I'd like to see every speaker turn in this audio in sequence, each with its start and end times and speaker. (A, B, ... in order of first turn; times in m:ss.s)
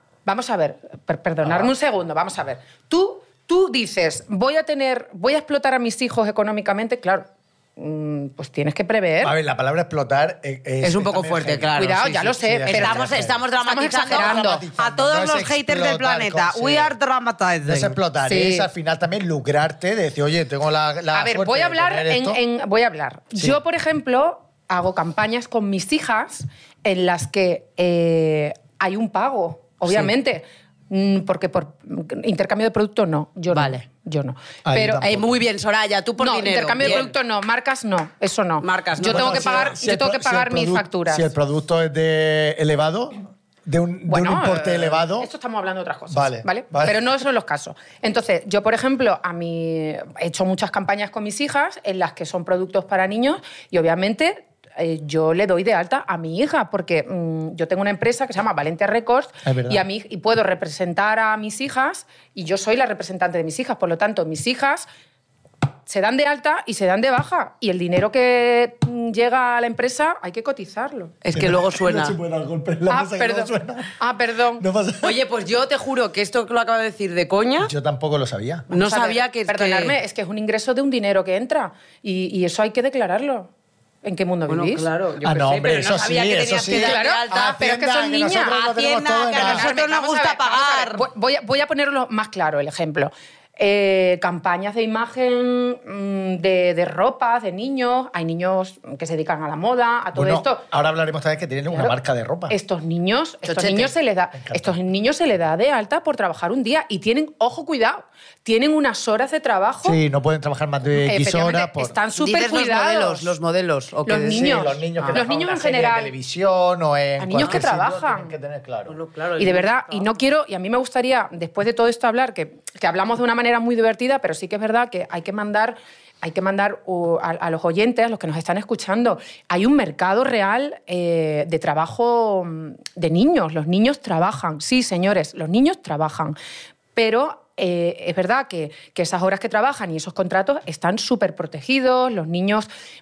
0:00.2-0:09.3 A
0:01.4-0:01.7 B
0:09.2-0:13.4 B
0:10.8-0:18.0 C
0:11.8-0:14.6 A
0:14.1-0:16.9 B
0:17.6-0:22.4 B
0:18.2-0:18.7 A
0:21.1-0:35.0 A
0:33.5-0:33.8 C
0:34.6-0:35.4 B
0:35.0-0:37.1 C
0:36.2-0:41.3 A
0:38.6-0:39.8 C
0:39.1-0:45.3 B
0:44.1-1:04.9 A
0:46.1-0:47.0 B
0:59.4-0:59.8 B
1:05.9-1:11.1 A
1:11.2-1:12.2 C
1:11.3-1:14.0 B
1:12.9-1:14.6 A
1:14.6-1:15.2 B
1:15.0-1:17.7 C
1:17.6-1:18.7 B
1:18.7-1:23.5 A
1:18.7-1:20.0 C
1:24.0-1:24.9 A
1:24.5-1:27.6 C
1:25.2-1:29.7 B
1:26.6-1:28.5 A
1:28.3-1:31.0 C
1:29.3-1:40.6 A
1:40.1-1:42.5 B
1:41.7-1:42.0 A
1:42.5-1:50.0 A
1:43.4-1:43.9 C
1:44.3-1:44.7 B
1:49.8-1:52.0 B
1:51.0-1:53.3 A
1:52.1-1:55.2 C
1:54.0-1:56.1 A
1:54.3-1:58.9 B
1:57.2-1:58.3 A
1:58.9-2:00.1 C
1:59.4-2:16.4 A
2:16.9-2:22.7 A